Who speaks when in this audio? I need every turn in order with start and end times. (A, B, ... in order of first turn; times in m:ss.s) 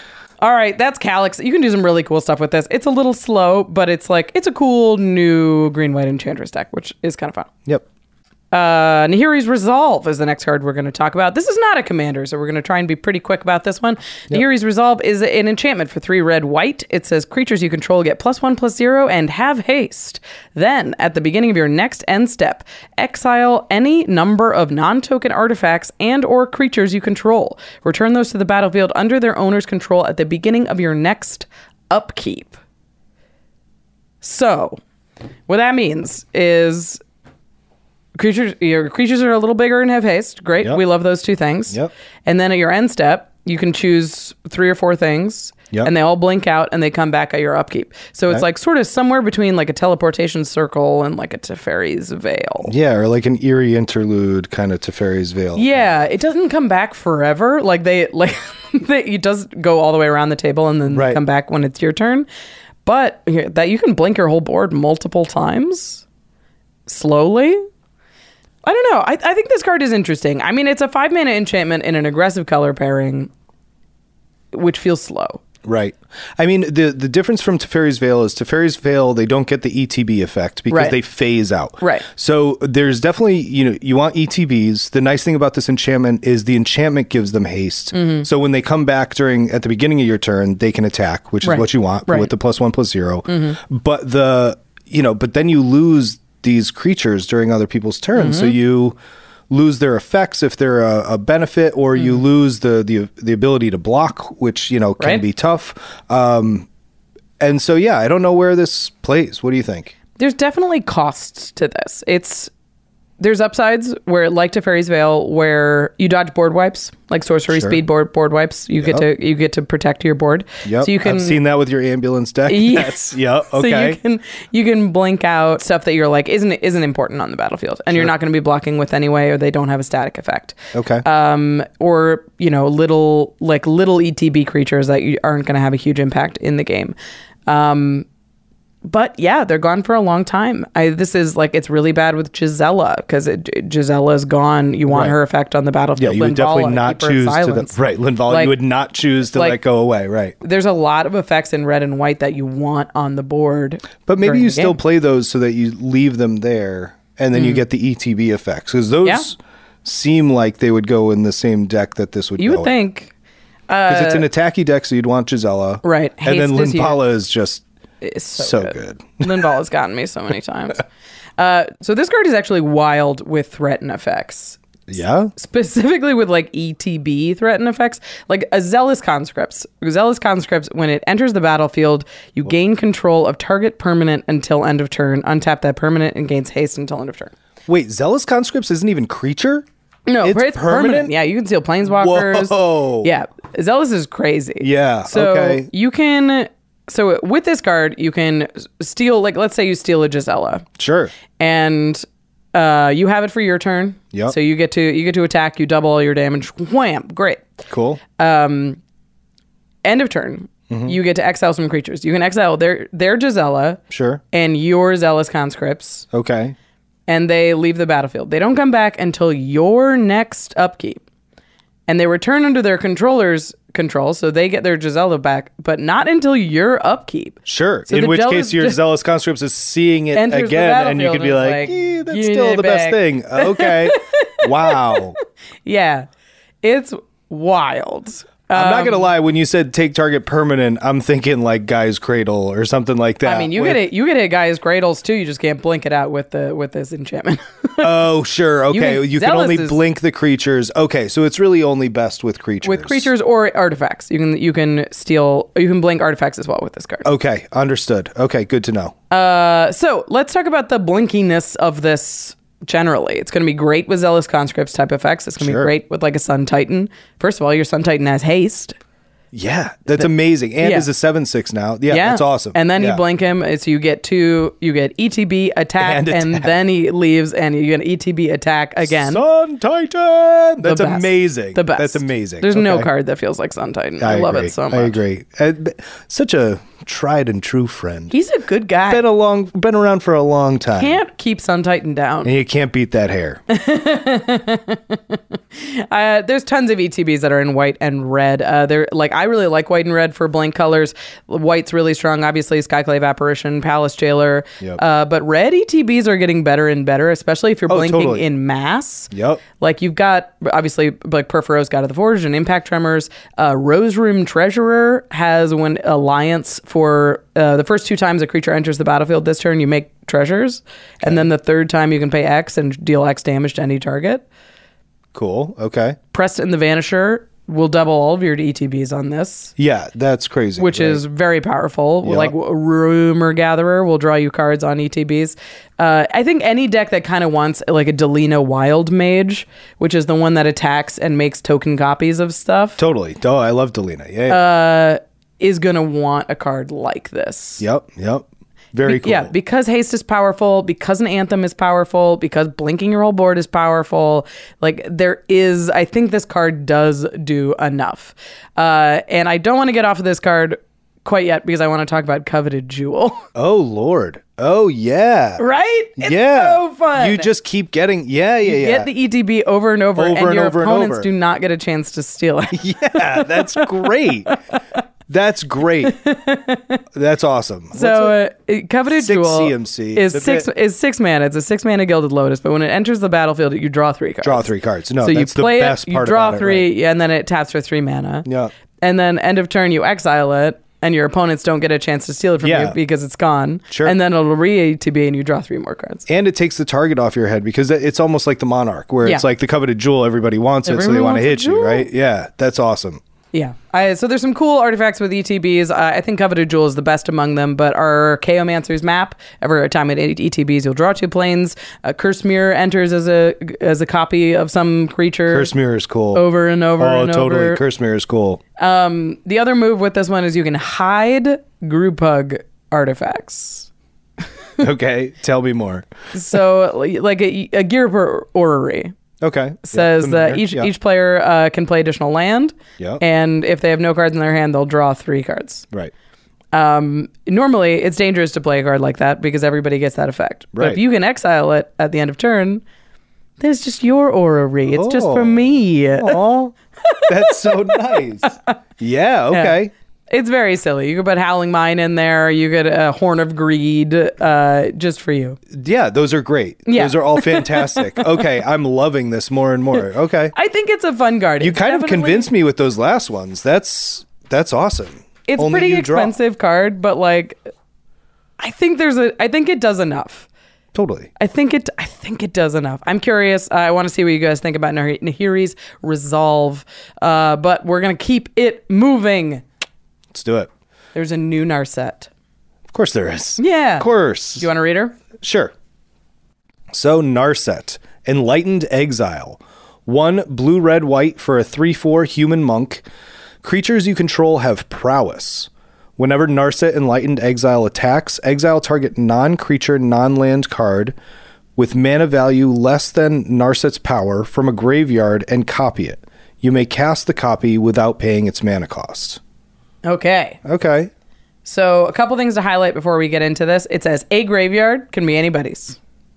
0:00.4-0:07.5 A
0:08.5-0:32.6 A
0:34.2-0:34.8 A
0:35.5-0:37.0 A
0:38.2-0:52.7 A
0:52.6-0:55.9 B
0:55.6-1:02.3 A
1:00.9-1:01.2 B
1:02.8-1:06.0 A
1:06.9-1:07.6 A
1:08.6-1:13.3 A
1:14.5-1:15.4 A
1:15.6-1:39.0 B
1:20.7-1:21.0 A
1:27.9-1:28.3 A
1:31.4-1:32.3 A
1:33.3-1:33.6 A
1:38.2-1:38.6 A
1:39.5-1:46.7 B
1:42.0-1:42.2 A
1:47.4-1:50.0 B
1:50.2-1:52.5 A
1:53.2-2:01.4 A
1:57.5-1:57.8 B
2:00.6-2:04.0 B
2:02.5-2:17.0 A
2:10.7-2:11.0 B
2:17.5-2:18.1 A
2:18.9-2:28.6 A
2:24.9-2:25.2 B
2:26.0-2:30.4 B
2:29.3-2:29.6 A
2:30.4-2:34.8 A
2:34.0-2:42.7 B
2:37.3-2:37.6 A
2:42.4-2:43.1 A
2:43.7-2:44.3 A
2:43.9-2:47.6 B
2:45.8-2:47.0 A
2:48.0-2:50.8 A
2:48.4-2:49.3 B
2:51.4-2:54.6 A
2:54.9-2:55.3 B
2:55.3-3:07.3 A
3:07.7-3:09.7 B
3:10.1-3:20.7 A
3:10.2-3:11.1 B
3:11.9-3:13.1 B
3:14.6-3:15.7 B
3:20.8-3:21.1 B
3:21.4-3:27.5 A
3:27.7-3:28.0 B
3:28.2-3:28.8 A
3:29.8-3:33.8 A
3:30.7-3:31.0 B
3:33.9-3:34.2 B
3:34.3-3:36.1 A
3:36.1-3:36.6 B
3:37.1-3:41.0 A
3:41.9-3:48.8 A
3:47.5-3:55.2 B
3:50.1-3:55.0 A
3:55.6-3:56.1 A
3:56.6-3:59.1 A
3:58.5-4:03.8 B
4:03.2-4:08.0 A
4:07.8-4:13.1 B
4:08.7-4:09.8 A
4:12.6-4:17.1 A
4:17.0-4:19.0 B
4:19.1-4:28.8 A
4:25.4-4:25.7 B
4:29.3-4:33.0 B
4:30.6-4:30.9 A
4:31.9-4:39.2 A
4:35.8-4:36.5 B
4:38.8-4:42.9 B
4:40.6-4:45.0 A
4:44.0-4:48.1 B
4:48.1-4:49.0 A
4:48.9-4:51.0 B
4:50.8-4:52.3 A
4:52.2-4:53.4 B
4:53.5-5:24.3 A
5:07.7-5:08.3 B
5:09.1-5:09.4 B
5:25.1-5:26.0 B
5:26.1-5:29.5 A
5:29.6-5:31.0 B
5:30.6-5:42.8 A
5:32.0-5:32.3 B
5:42.8-5:44.4 B
5:44.3-5:47.6 A
5:47.6-5:49.3 B
5:48.8-6:03.3 A
6:03.4-6:05.4 B
6:05.4-6:07.3 A
6:06.0-6:08.9 B
6:08.4-6:14.3 A
6:10.0-6:11.1 B
6:12.5-6:14.4 B
6:15.1-6:16.0 B
6:15.8-6:16.8 A
6:16.9-6:18.2 B
6:17.7-6:28.3 A
6:18.9-6:20.5 B
6:24.2-6:26.7 B
6:28.2-6:28.5 B
6:28.8-6:36.1 A
6:32.4-6:32.8 B
6:33.7-6:34.0 B
6:36.1-6:43.0 B
6:40.7-6:41.9 A
6:43.3-6:55.5 A
6:55.3-6:56.3 B
6:56.1-6:57.6 A
6:56.8-6:58.4 B
6:58.6-7:03.7 A
7:04.6-7:05.9 B
7:06.1-7:08.9 A
7:09.2-7:10.7 B
7:09.7-7:15.7 A
7:16.5-7:22.6 A
7:20.5-7:20.8 B
7:23.4-7:26.2 A
7:24.6-7:26.5 B
7:26.9-7:27.7 A
7:27.1-7:29.7 B
7:28.2-7:28.5 A
7:29.3-7:29.6 A
7:30.1-7:35.4 A
7:35.5-7:40.3 B
7:36.7-7:38.2 A
7:40.3-7:42.3 A
7:41.4-7:46.1 B
7:45.3-7:47.4 A
7:48.4-7:50.3 A
7:50.7-7:51.1 B
7:51.2-7:59.4 A
8:00.1-8:00.5 B
8:00.9-8:02.1 A
8:02.7-8:04.5 B
8:03.4-8:05.0 A
8:05.2-8:05.5 B
8:06.7-8:12.8 B
8:13.4-8:21.0 B
8:21.6-8:29.2 B
8:29.8-8:30.4 A
8:30.4-8:30.9 B
8:31.4-8:35.8 A